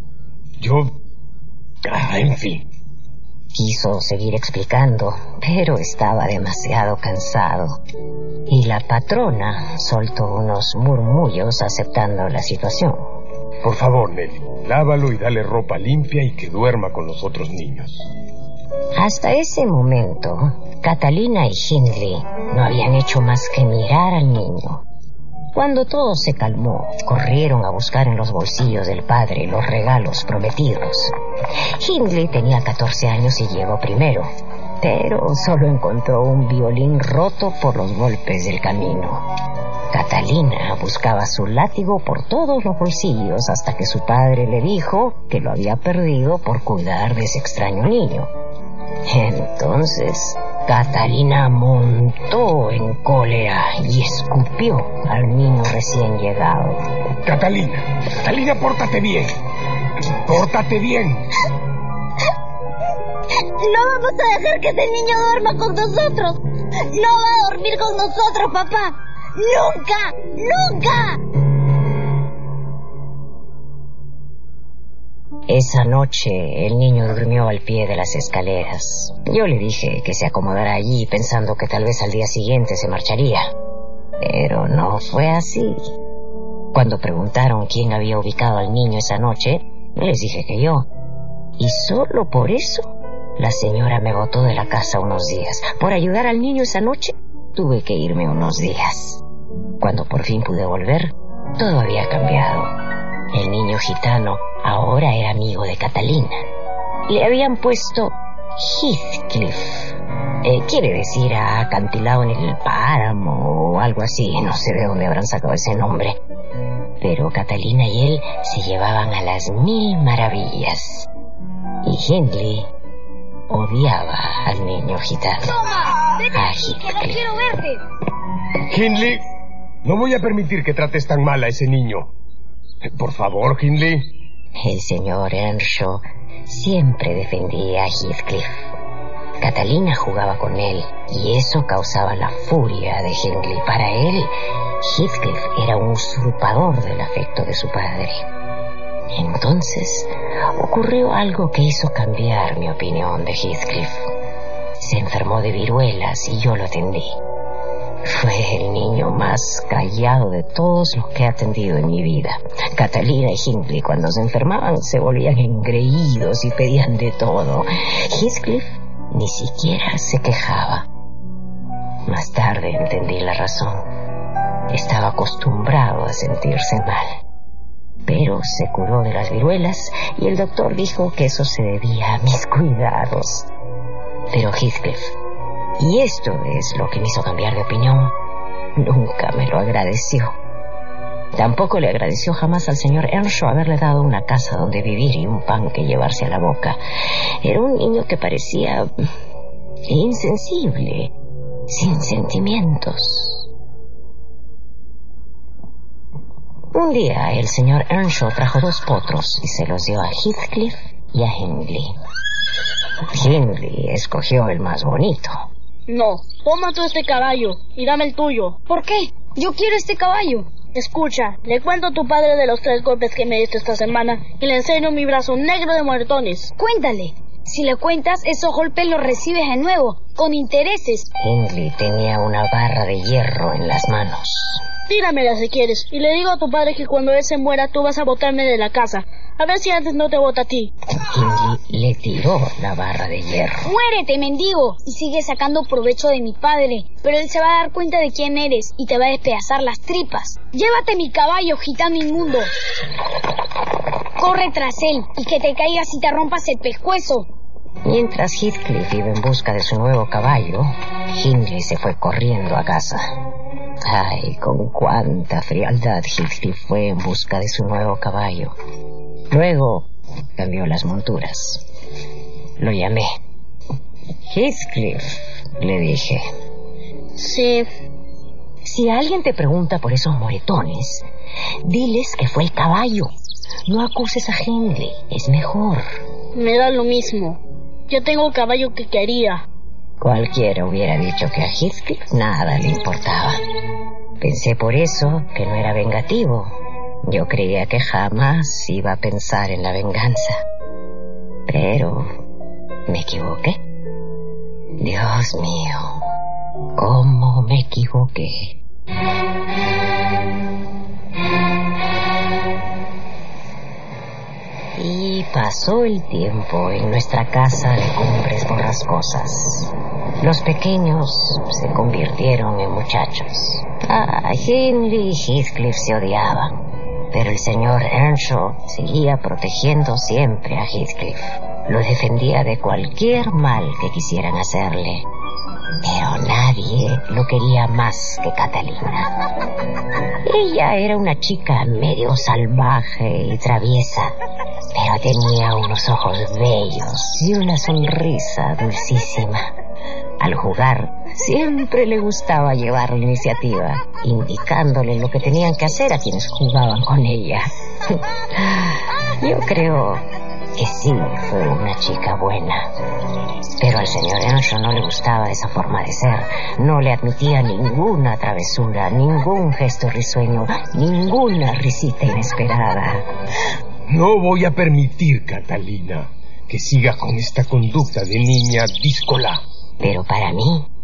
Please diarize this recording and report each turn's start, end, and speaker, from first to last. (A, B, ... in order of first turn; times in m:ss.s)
0:00.6-0:00.9 A
0:01.8-0:02.6 A
0:03.5-0:07.8 B
0:08.5-0:13.1 B
0:13.6-0:18.1 A
0:18.9-0:24.8 B
0:25.5-0:31.1 B
0:31.8-0:34.3 B
0:34.8-0:39.2 B
0:39.9-0:48.3 B
0:49.0-0:56.8 B
0:57.2-0:59.3 A
1:00.2-1:01.2 A
1:03.6-1:11.2 C
1:15.5-1:23.5 B
1:24.2-1:25.8 B
1:26.7-1:30.9 B
1:31.6-1:39.2 B
1:39.8-1:42.7 B
1:43.3-1:46.4 B
1:47.1-1:56.2 B
1:57.0-2:01.1 B
2:01.8-2:02.7 B
2:03.5-2:05.6 B
2:05.6-2:05.9 D
2:06.3-2:07.2 B
2:07.3-2:07.8 D
2:08.7-2:09.2 A
2:09.8-2:12.1 A
2:12.8-2:14.1 A
2:14.6-2:18.7 B
2:19.4-2:28.2 B
2:29.1-2:34.0 B
2:34.8-2:37.2 B
2:38.0-2:50.9 B
2:52.1-2:53.8 B
2:54.7-2:57.1 B
2:58.0-3:03.5 B
3:04.3-3:05.1 B
3:05.8-3:08.1 B
3:08.8-3:10.3 B
3:11.3-3:16.8 B
3:17.4-3:18.9 B
3:19.8-3:21.1 B
3:21.7-3:23.5 B
3:26.7-3:31.9 B
3:33.1-3:35.4 B
3:35.9-3:38.6 E
3:38.7-3:40.5 D
3:40.7-3:46.5 E
3:46.6-3:51.1 D
3:51.2-3:54.6 B
3:54.9-4:00.7 E
4:01.0-4:03.7 B
4:03.6-4:12.5 D
4:14.2-4:17.3 D
4:17.8-4:23.0 B
4:23.8-4:28.5 B
4:29.3-4:31.6 B
4:32.6-4:33.1 B
4:34.2-4:36.3 B
4:37.2-4:37.7 E
4:38.6-4:41.0 B
4:41.6-4:43.1 B
4:43.6-4:45.8 B
4:46.3-4:49.4 E
4:50.0-4:53.4 B
4:54.2-4:56.5 B
4:57.0-5:00.4 B
5:01.5-5:02.1 B
5:02.9-5:03.6 B
5:04.8-5:06.0 B
5:06.7-5:08.6 B
5:14.8-5:26.6 B
5:27.1-5:35.1 B
5:35.8-5:39.1 B
5:40.2-5:44.1 B
5:44.7-5:49.5 B
5:50.2-6:00.0 B
6:00.6-6:02.7 B
6:03.6-6:13.0 B
6:13.9-6:19.4 A
6:19.8-6:20.7 B